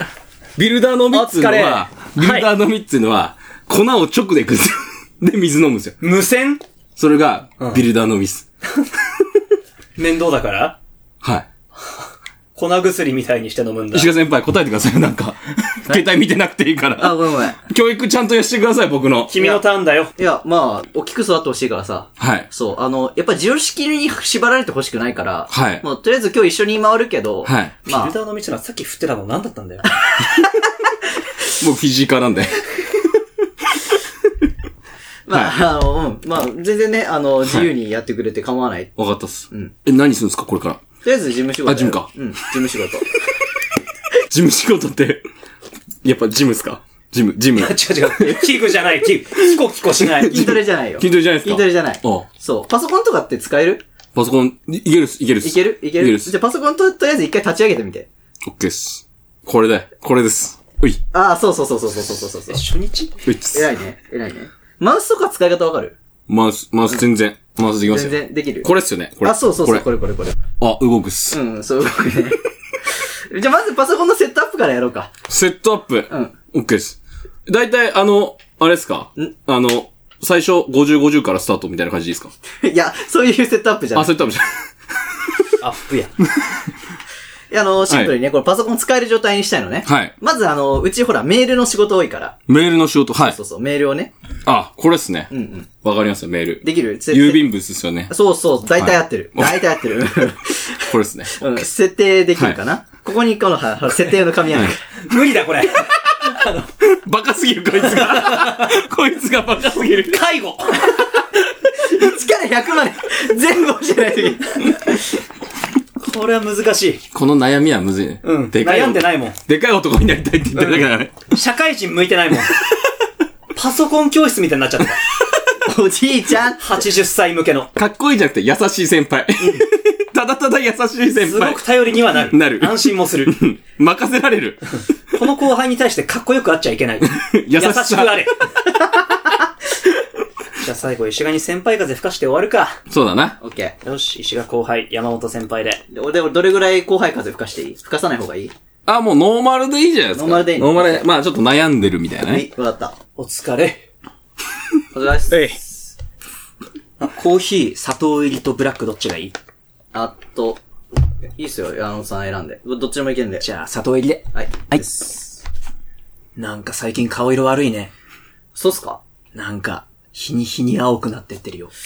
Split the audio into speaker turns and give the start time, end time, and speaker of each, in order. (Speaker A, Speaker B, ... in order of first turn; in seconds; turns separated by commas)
Speaker A: 0.6-6.0, Speaker B: 1.1-2.5, Speaker B: 6.0-6.6, Speaker A: 7.0-8.4, Speaker B: 7.6-7.8, Speaker B: 10.0-10.8, Speaker A: 11.2-11.5, Speaker B: 12.5-14.1, Speaker A: 13.9-19.3, Speaker C: 17.0-17.6, Speaker B: 19.3-20.1, Speaker C: 20.2-28.1, Speaker A: 22.2-22.5, Speaker A: 25.5-25.8, Speaker A: 27.4-27.7, Speaker B: 27.9-29.9, Speaker C: 30.2-30.5, Speaker A: 31.5-32.6, Speaker C: 35.3-38.9, Speaker A: 39.0-40.8, Speaker C: 41.0-43.1, Speaker A: 41.6-42.1, Speaker A: 44.3-45.2, Speaker A: 46.0-48.8, Speaker B: 47.5-50.5, Speaker A: 50.0-52.2, Speaker C: 50.2-53.8, Speaker A: 54.1-56.3, Speaker C: 55.4-58.1, Speaker A: 58.4-61.0, Speaker C: 61.1-62.6, Speaker B: 62.5-63.1, Speaker A: 63.2-63.7, Speaker C: 63.5-65.9, Speaker A: 66.3-69.8, Speaker C: 67.8-68.7, Speaker C: 69.2-70.4, Speaker A: 70.6-71.4, Speaker C: 71.3-75.1, Speaker A: 75.3-82.3, Speaker C: 82.6-84.2, Speaker A: 83.9-84.5, Speaker B: 85.6-86.2, Speaker C: 87.5-92.4, Speaker A: 87.9-88.1, Speaker A: 89.8-90.1, Speaker A: 92.5-93.4, Speaker C: 93.2-94.1, Speaker A: 94.4-95.3, Speaker C: 95.3-95.7, Speaker A: 95.8-98.1, Speaker C: 96.6-97.4, Speaker C: 98.1-104.8, Speaker A: 98.8-99.6, Speaker A: 100.9-101.6, Speaker B: 105.0-106.7, Speaker A: 106.2-110.2, Speaker B: 107.8-108.7, Speaker B: 109.8-111.0, Speaker C: 111.8-115.2, Speaker B: 116.0-117.0, Speaker A: 117.1-121.2, Speaker B: 118.2-119.4, Speaker B: 120.5-122.6, Speaker B: 123.5-125.0, Speaker C: 125.6-126.8, Speaker B: 126.6-127.7, Speaker A: 127.8-134.6, Speaker B: 131.2-133.4, Speaker B: 135.1-138.5, Speaker A: 137.0-138.4, Speaker B: 140.6-142.8, Speaker A: 142.9-143.4, Speaker C: 143.4-143.8, Speaker B: 143.8-145.8, Speaker C: 145.9-148.5, Speaker A: 148.9-152.5, Speaker C: 150.1-151.1, Speaker C: 152.2-152.9, Speaker B: 153.2-153.8, Speaker C: 154.9-155.9, Speaker A: 155.3-155.6, Speaker B: 157.0-159.3, Speaker C: 159.9-160.6, Speaker C: 161.4-163.4, Speaker B: 163.4-164.8, Speaker C: 164.3-165.4, Speaker B: 166.3-167.9, Speaker C: 168.5-169.0, Speaker B: 169.3-171.7